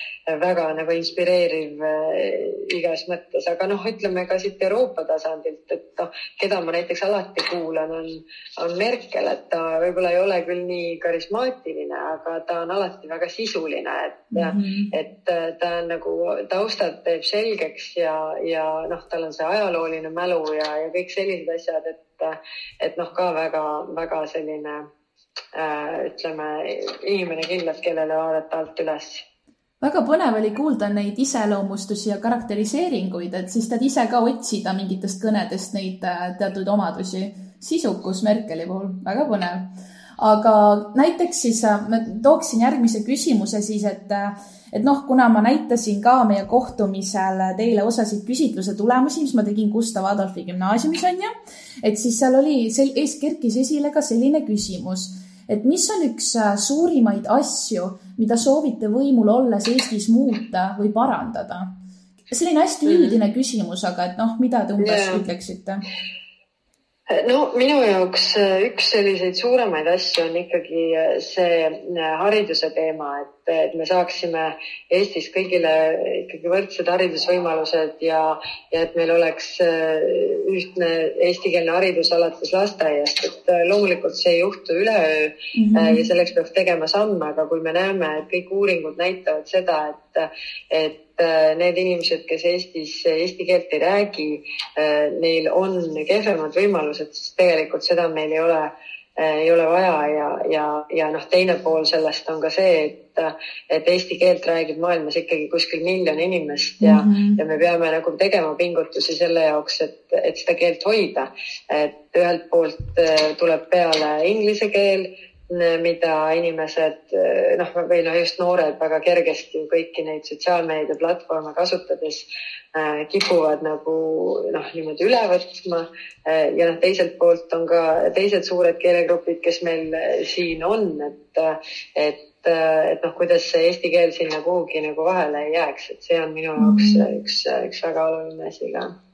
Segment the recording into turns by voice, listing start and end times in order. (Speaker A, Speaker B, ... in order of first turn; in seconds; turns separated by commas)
Speaker A: 0.3-24.8, Speaker B: 14.3-14.9, Speaker A: 25.5-29.2, Speaker B: 29.8-51.3, Speaker B: 51.8-61.7, Speaker B: 62.3-65.8, Speaker A: 62.9-63.2, Speaker A: 64.8-65.2, Speaker A: 67.1-138.9, Speaker B: 85.5-86.1, Speaker B: 106.8-107.4, Speaker B: 136.6-137.1